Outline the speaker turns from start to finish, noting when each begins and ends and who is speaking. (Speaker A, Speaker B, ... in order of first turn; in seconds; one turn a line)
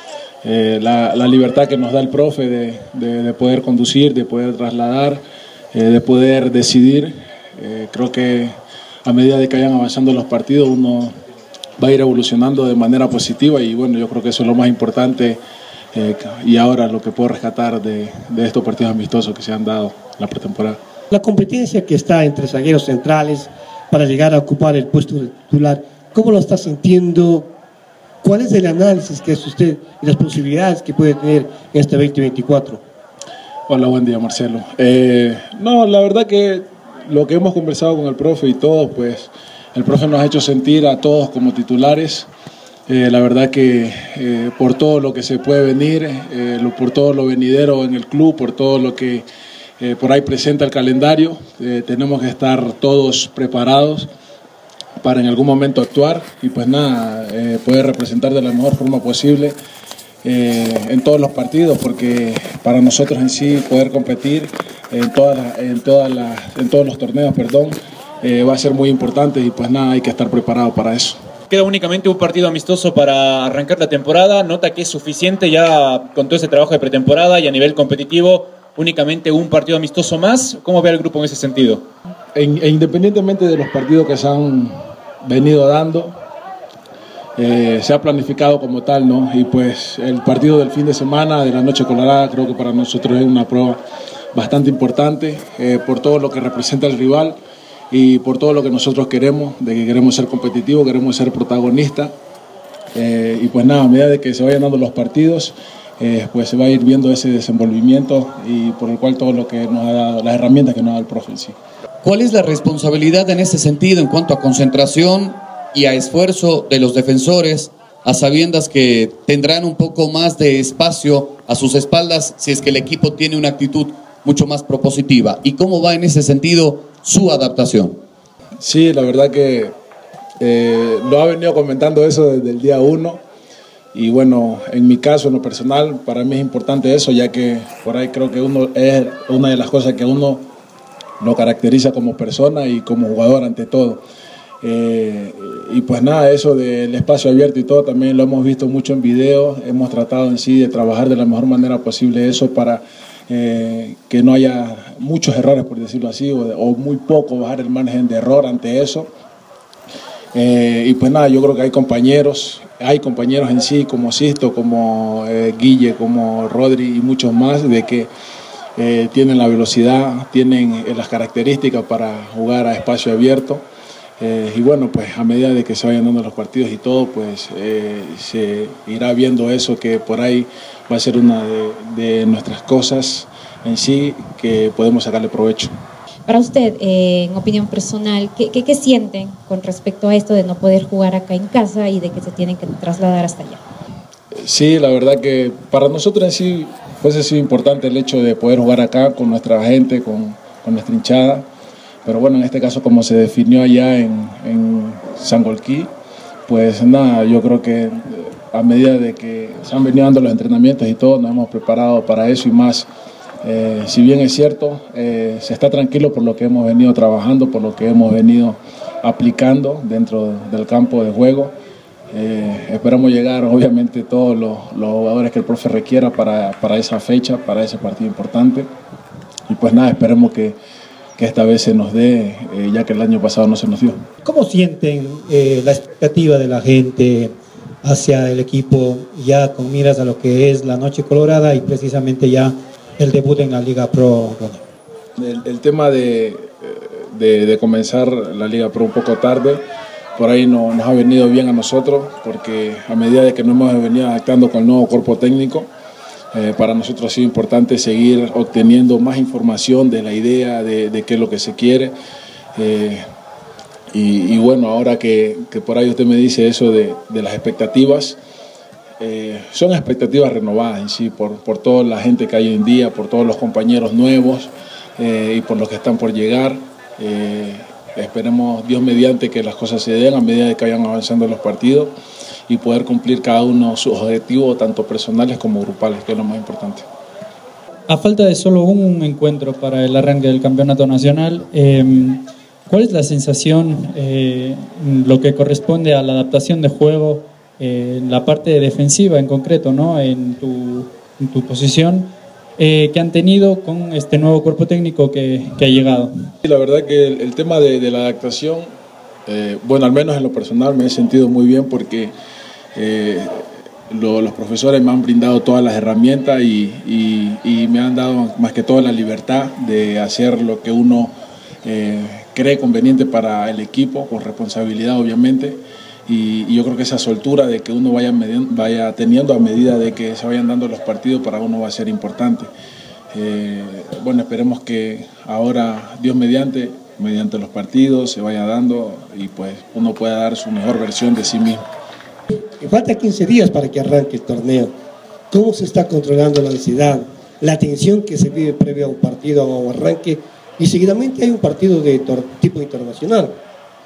Speaker A: 0.4-5.2
Speaker A: 5.7-8.5
Speaker A: 9.0-11.2
Speaker A: 11.8-15.4
Speaker A: 15.9-20.8
Speaker B: 21.1-27.5
Speaker B: 28.2-32.8
Speaker A: 33.7-42.3
Speaker A: 42.9-49.2
Speaker A: 49.8-54.1
Speaker A: 55.0-59.6
Speaker A: 60.2-71.2
Speaker C: 71.5-81.9
Speaker A: 82.3-86.2
Speaker A: 87.4-93.8
Speaker A: 94.3-97.4
Speaker A: 97.9-102.1
Speaker A: 102.9-111.5
Speaker D: 112.0-128.0
Speaker A: 128.6-129.7
Speaker A: 130.4-133.2
Speaker A: 133.9-140.5
Speaker A: 141.2-144.0
Speaker A: 144.6-159.1
Speaker A: 160.3-168.1
Speaker A: 168.8-173.6
Speaker A: 174.2-185.7
Speaker E: 186.3-193.6
Speaker A: 194.3-201.4
Speaker A: 202.0-205.9
Speaker A: 206.5-212.9
Speaker A: 213.4-221.5
Speaker A: 222.1-228.7
Speaker A: 229.5-230.6
Speaker A: 231.2-234.1
Speaker F: 234.2-244.6
Speaker A: 245.2-249.6
Speaker A: 250.1-255.7
Speaker A: 256.3-261.9
Speaker A: 262.5-263.1
Speaker A: 263.9-268.2
Speaker A: 269.0-281.9
Speaker A: 282.5-286.9
Speaker G: 287.9-306.3
Speaker A: 306.4-308.7
Speaker A: 309.2-312.1
Speaker A: 312.7-332.5
Speaker A: 333.1-341.6
Speaker B: 342.4-344.7
Speaker B: 345.3-353.4